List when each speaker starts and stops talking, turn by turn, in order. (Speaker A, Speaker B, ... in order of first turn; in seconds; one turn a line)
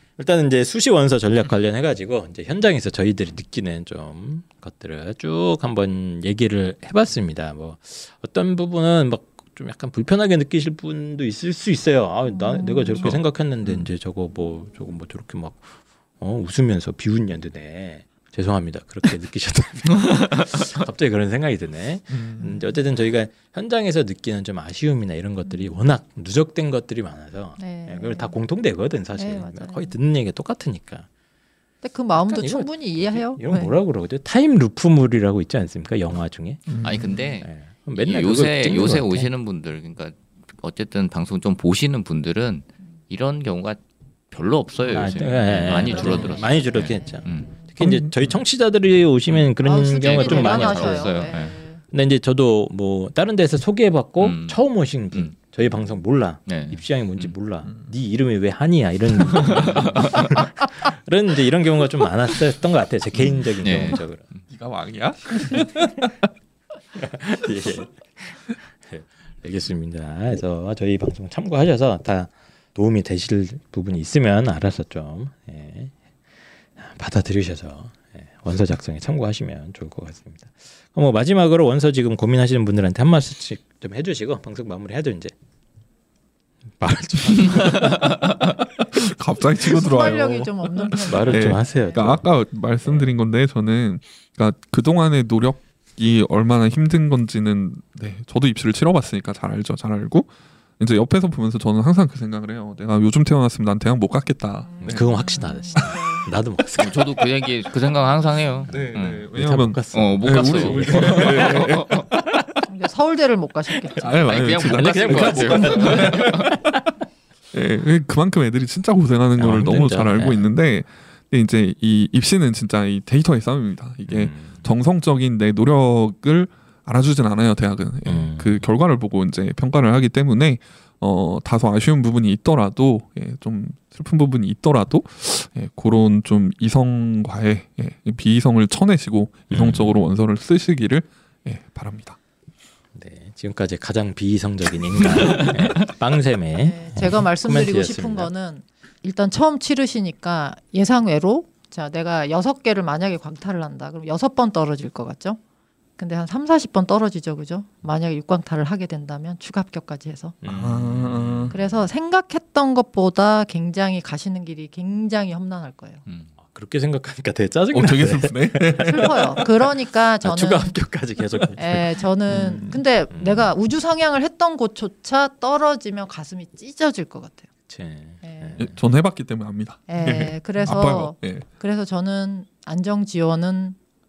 Speaker A: 0.2-31.1
Speaker B: 12.4-13.1
Speaker C: 22.1-22.5
Speaker B: 22.4-22.7
Speaker B: 27.6-28.4
Speaker B: 29.1-29.9
Speaker B: 31.8-33.8
Speaker A: 32.1-36.9
Speaker C: 36.7-37.0
Speaker D: 36.8-47.5
Speaker A: 37.4-39.3
Speaker A: 44.9-64.2
Speaker B: 45.6-47.5
Speaker C: 47.8-48.1
Speaker B: 49.6-51.8
Speaker D: 50.0-51.5
Speaker D: 54.2-54.6
Speaker D: 56.5-57.3
Speaker D: 59.4-60.3
Speaker D: 63.5-64.0
Speaker C: 64.5-66.3
Speaker A: 67.0-75.9
Speaker A: 76.8-85.3
Speaker A: 86.8-88.3
Speaker C: 88.8-105.1
Speaker B: 89.6-92.1
Speaker A: 91.1-92.2
Speaker A: 92.8-93.1
Speaker B: 104.7-106.3
Speaker A: 104.8-107.5
Speaker D: 106.8-109.3
Speaker A: 108.7-112.0
Speaker C: 108.7-112.4
Speaker D: 109.9-112.1
Speaker B: 112.7-114.4
Speaker C: 114.0-116.8
Speaker D: 114.3-116.5
Speaker A: 114.7-116.8
Speaker C: 117.5-142.2
Speaker A: 119.4-120.5
Speaker A: 124.0-124.6
Speaker A: 128.1-128.6
Speaker A: 139.5-140.0
Speaker A: 142.9-148.3
Speaker B: 146.6-155.4
Speaker B: 156.0-160.3
Speaker A: 160.4-161.7
Speaker C: 160.5-161.6
Speaker B: 161.5-166.0
Speaker D: 166.1-166.3
Speaker A: 166.4-169.5
Speaker C: 167.7-169.2
Speaker B: 168.8-170.8
Speaker A: 170.2-172.6
Speaker B: 171.6-177.5
Speaker C: 172.3-172.8
Speaker A: 173.1-173.5
Speaker A: 177.7-178.8
Speaker B: 178.2-178.6
Speaker C: 178.6-181.4
Speaker B: 179.9-183.8